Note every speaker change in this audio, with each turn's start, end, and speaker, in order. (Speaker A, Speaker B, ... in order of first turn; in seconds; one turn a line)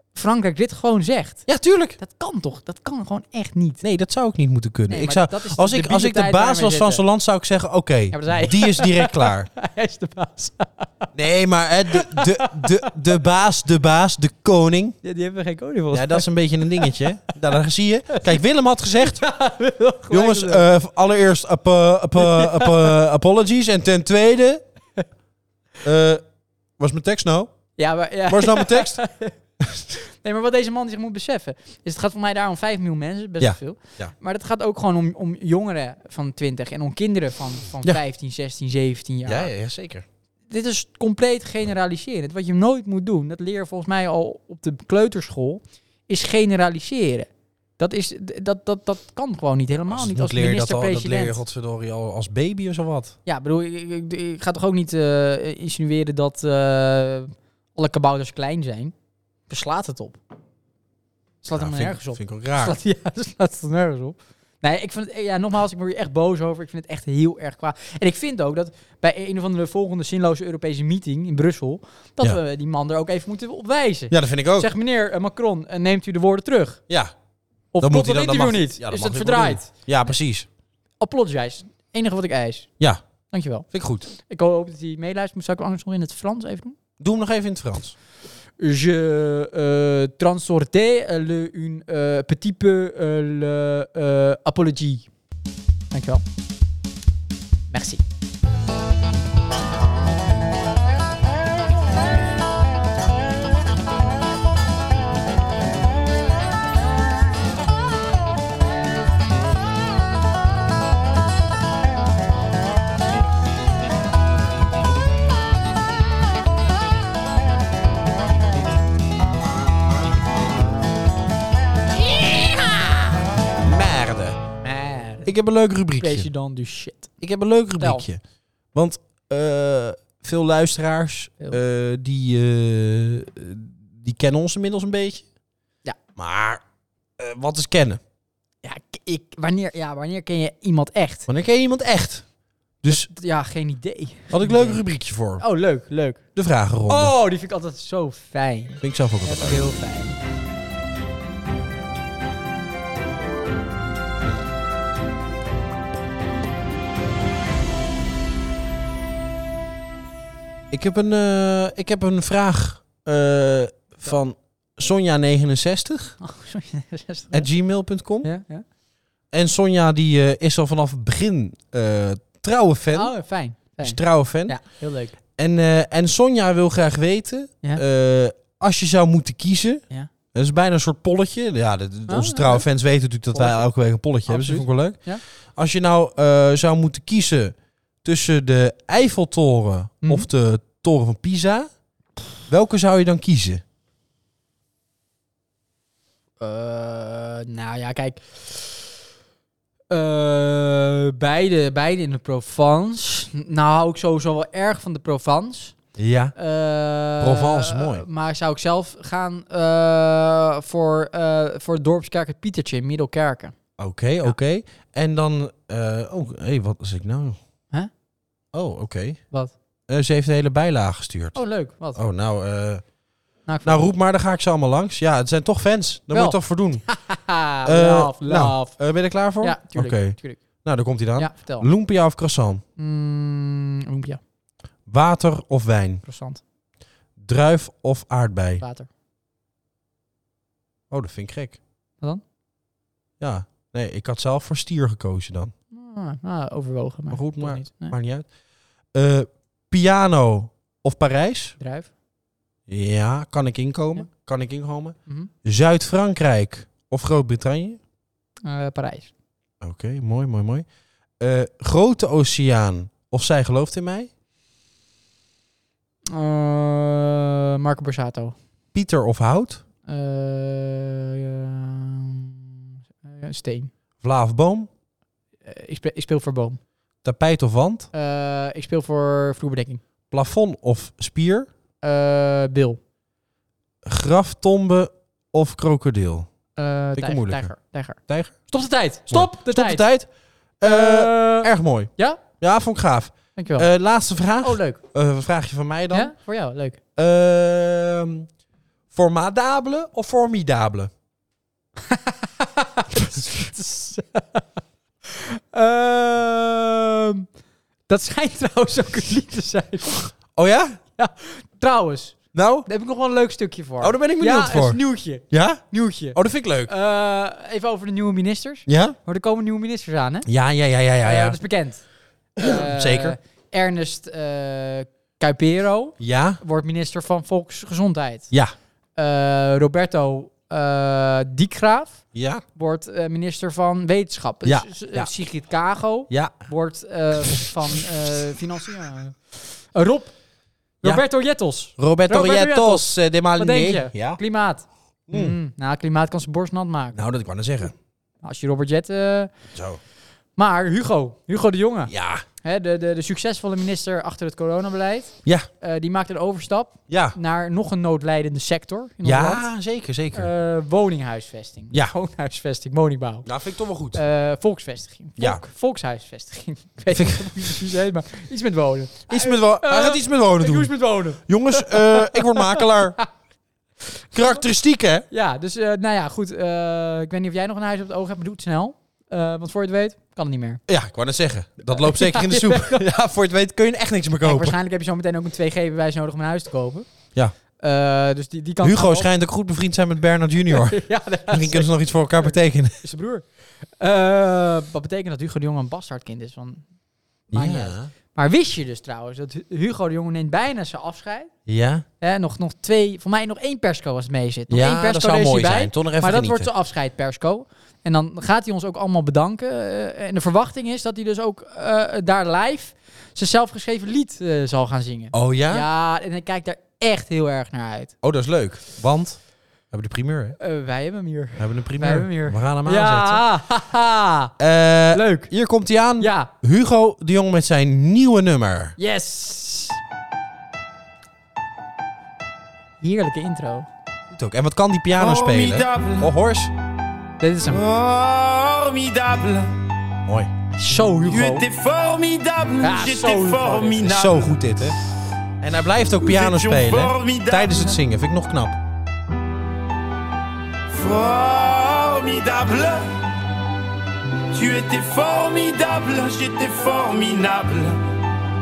Speaker A: 0.1-1.4
Speaker B: 1.5-2.0
Speaker A: 2.0-3.8
Speaker B: 3.8-9.5
Speaker A: 4.9-7.0
Speaker A: 8.1-11.1
Speaker B: 11.1-15.0
Speaker A: 11.9-12.9
Speaker A: 15.0-16.9
Speaker B: 15.9-19.2
Speaker A: 18.1-18.4
Speaker A: 19.0-20.7
Speaker B: 20.1-24.6
Speaker A: 22.2-22.9
Speaker B: 25.8-26.2
Speaker B: 26.8-27.5
Speaker A: 27.8-39.5
Speaker B: 28.3-29.0
Speaker B: 33.4-34.1
Speaker B: 39.2-40.0
Speaker A: 40.5-51.4
Speaker B: 49.9-53.1
Speaker A: 53.2-58.9
Speaker A: 59.5-60.2
Speaker A: 61.4-76.8
Speaker B: 61.5-62.8
Speaker B: 74.1-74.7
Speaker A: 77.7-80.1
Speaker B: 77.8-80.5
Speaker A: 81.0-82.7
Speaker A: 83.3-86.8
Speaker B: 83.7-84.1
Speaker B: 87.0-87.9
Speaker A: 88.6-95.1
Speaker A: 95.9-96.2
Speaker A: 97.7-98.0
Speaker A: 122.2-123.0
Speaker B: 123.6-124.4
Speaker A: 124.6-125.3
Speaker B: 125.2-126.3
Speaker A: 126.0-127.1
Speaker B: 127.2-128.2
Speaker A: 127.8-128.1
Speaker B: 128.7-135.2
Speaker B: 136.2-136.6
Speaker B: 137.2-138.0
Speaker A: 138.6-141.3
Speaker B: 141.3-142.2
Speaker B: 142.8-143.1
Speaker A: 142.9-144.8
Speaker B: 144.3-145.4
Speaker A: 145.4-146.2
Speaker B: 146.3-147.1
Speaker A: 146.9-150.2
Speaker B: 148.8-149.7
Speaker B: 160.7-166.2
Speaker A: 166.2-167.5
Speaker B: 167.3-168.3
Speaker A: 168.2-168.6
Speaker B: 169.3-173.1
Speaker A: 172.9-175.2
Speaker B: 173.8-174.6
Speaker B: 175.4-191.7
Speaker A: 182.1-182.7
Speaker A: 183.3-183.7
Speaker A: 184.2-185.2
Speaker A: 190.0-190.3
Speaker B: 192.5-193.6
Speaker A: 196.4-198.9
Speaker A: 199.9-205.8
Speaker B: 205.9-206.3
Speaker A: 206.4-213.6
Speaker B: 207.2-208.1
Speaker B: 213.8-217.4
Speaker B: 218.5-219.2
Speaker B: 219.9-221.4
Speaker A: 221.3-222.0
Speaker B: 221.9-222.9
Speaker A: 223.4-223.9
Speaker B: 223.6-226.9
Speaker A: 226.1-228.8
Speaker B: 227.6-232.6
Speaker A: 229.4-230.4
Speaker A: 231.2-231.7
Speaker A: 232.8-234.2
Speaker B: 234.9-236.0
Speaker A: 236.1-236.4
Speaker B: 237.2-238.6
Speaker A: 238.6-238.9
Speaker B: 240.9-241.6
Speaker B: 243.2-245.5
Speaker A: 245.7-247.9
Speaker B: 247.1-248.3
Speaker B: 248.9-251.6
Speaker A: 251.6-251.9
Speaker B: 252.7-257.8
Speaker A: 258.4-259.1
Speaker B: 259.6-260.6
Speaker B: 261.2-264.1
Speaker A: 266.1-268.4
Speaker B: 268.7-269.6
Speaker A: 269.9-272.5
Speaker A: 273.0-273.7
Speaker B: 274.0-274.7
Speaker A: 275.4-276.6
Speaker B: 277.0-277.9
Speaker A: 277.9-279.8
Speaker B: 280.1-281.5
Speaker A: 281.8-282.8
Speaker B: 283.8-286.3
Speaker A: 286.6-289.9
Speaker B: 286.9-287.5
Speaker B: 288.1-288.3
Speaker B: 289.1-290.1
Speaker B: 290.6-296.1
Speaker A: 290.6-292.2
Speaker A: 293.4-293.7
Speaker A: 294.4-294.8
Speaker A: 295.9-296.8
Speaker B: 296.9-298.3
Speaker B: 298.9-300.9
Speaker A: 301.9-304.4
Speaker A: 305.1-307.3
Speaker A: 307.9-310.1
Speaker B: 310.4-310.8
Speaker A: 311.0-320.3
Speaker B: 312.3-312.7
Speaker B: 313.8-314.8
Speaker B: 315.3-315.6
Speaker B: 316.1-316.7
Speaker B: 318.7-319.0
Speaker B: 320.3-321.4
Speaker A: 321.0-321.8
Speaker B: 322.4-323.2
Speaker A: 322.4-328.3
Speaker B: 326.0-326.4
Speaker A: 328.9-332.0
Speaker B: 332.1-332.4
Speaker A: 332.6-340.1
Speaker B: 334.4-335.1
Speaker B: 336.1-336.4
Speaker A: 340.8-347.0
Speaker B: 341.8-344.2
Speaker B: 345.1-345.4
Speaker B: 346.9-347.7
Speaker A: 348.2-349.3
Speaker B: 349.5-349.8
Speaker A: 350.4-351.9
Speaker B: 351.9-352.2
Speaker A: 352.4-359.4
Speaker B: 356.9-357.1
Speaker B: 359.0-360.3
Speaker A: 360.1-363.3
Speaker B: 363.2-364.0
Speaker A: 363.9-373.1
Speaker B: 366.9-367.6
Speaker B: 369.1-373.0
Speaker A: 373.9-374.4
Speaker B: 374.1-375.1
Speaker A: 375.1-380.6
Speaker B: 380.7-384.6
Speaker A: 381.7-382.8
Speaker A: 384.2-386.9
Speaker A: 387.6-389.1
Speaker B: 388.6-392.8
Speaker A: 390.5-391.7
Speaker A: 392.8-393.2
Speaker A: 393.8-396.6
Speaker B: 397.3-397.9
Speaker A: 397.3-401.3
Speaker B: 401.5-401.8
Speaker A: 402.0-417.9
Speaker B: 404.5-406.5
Speaker B: 415.1-415.6
Speaker B: 418.0-420.4
Speaker A: 420.4-424.3
Speaker B: 421.4-423.2
Speaker B: 424.4-428.8
Speaker A: 424.9-425.3
Speaker A: 426.0-426.3
Speaker A: 428.8-429.8
Speaker A: 432.8-433.7
Speaker B: 434.1-436.5
Speaker C: 434.9-436.1
Speaker A: 437.2-437.6
Speaker C: 437.5-439.5
Speaker A: 440.5-441.4
Speaker C: 441.1-444.3
Speaker A: 442.6-443.9
Speaker B: 443.8-444.8
Speaker B: 445.4-448.6
Speaker C: 446.0-447.8
Speaker C: 450.7-452.9
Speaker C: 454.3-457.8